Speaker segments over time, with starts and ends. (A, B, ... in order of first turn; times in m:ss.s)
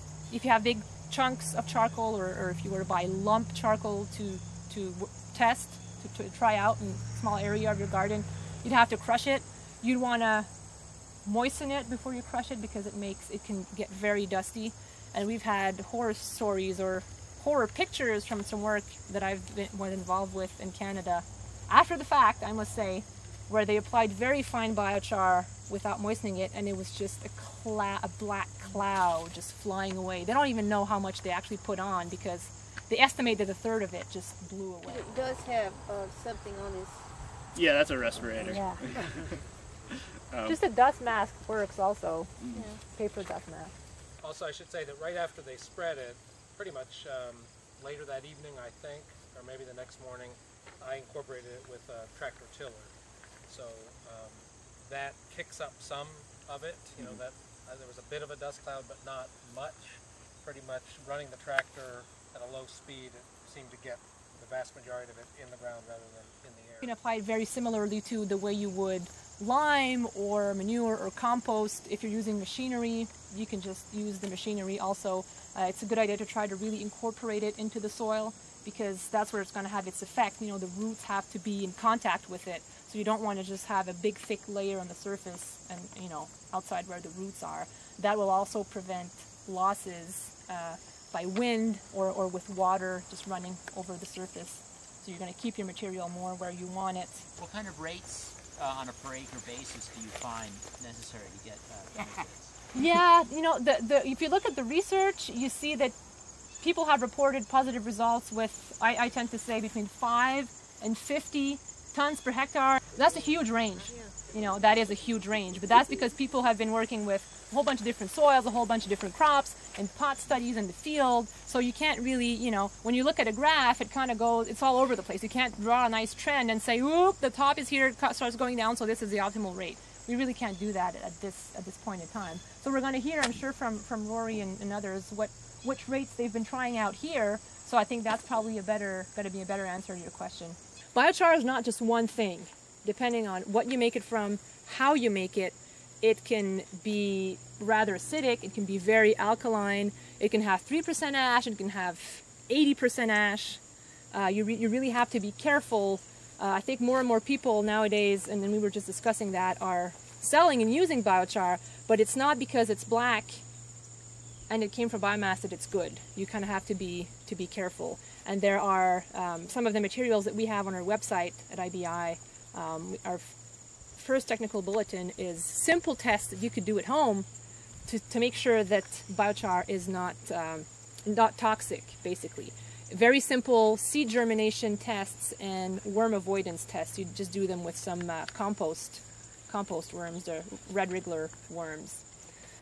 0:00.3-0:10.5 A
0:11.2-0:35.1 A
0:34.9-0:37.1 B
0:37.6-0:39.4 C
0:38.4-0:38.8 B
0:40.3-0:40.6 C
0:40.5-0:42.3 A
0:42.5-0:42.8 B
0:42.8-0:43.7 A
0:44.2-0:52.9 D
0:53.5-1:06.9 D
1:06.8-1:37.2 A
1:37.4-1:42.6 E
1:42.8-1:46.0 A
1:46.6-2:33.6 A
2:34.1-2:43.4 A
2:44.5-2:53.3 A
2:54.0-2:57.3 A
2:57.9-3:12.0 A